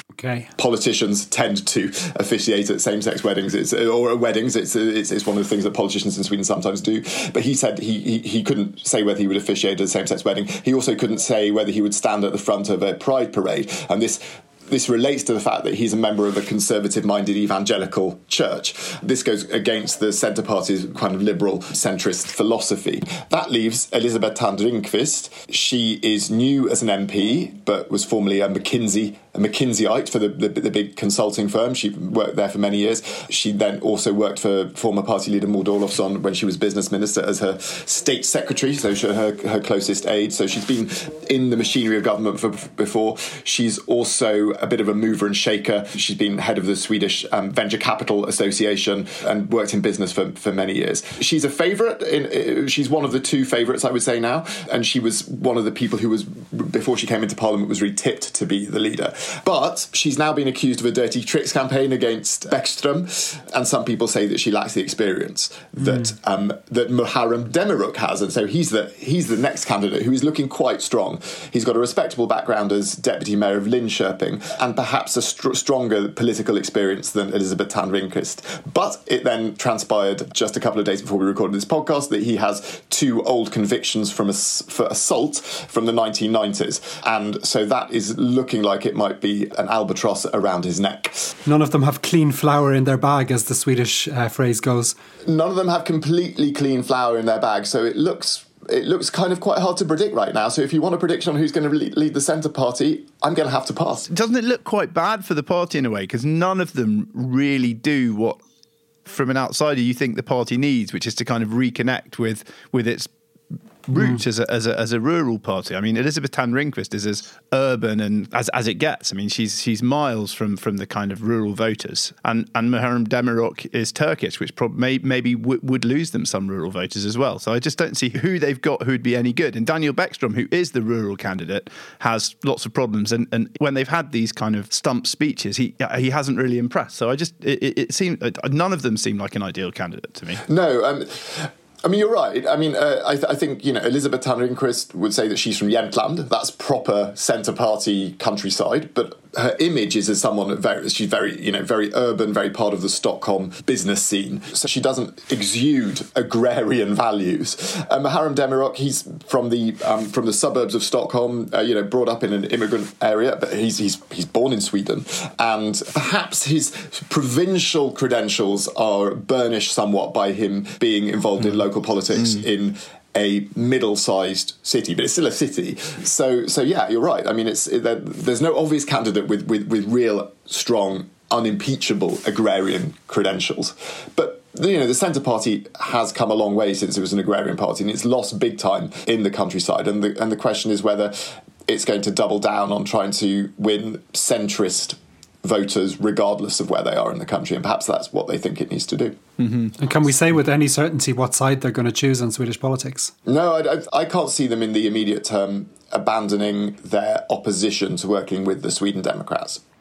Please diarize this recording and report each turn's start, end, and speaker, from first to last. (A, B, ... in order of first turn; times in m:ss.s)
0:00.2-0:00.5 A
0:00.6-1:31.2 B
1:31.4-1:34.9 A
1:35.2-1:44.1 B
1:44.1-1:48.4 C
1:49.0-1:53.1 C
1:53.9-2:20.4 C
2:20.4-3:19.2 B
3:19.4-3:19.7 C
3:19.8-3:23.1 A
3:23.2-3:29.6 B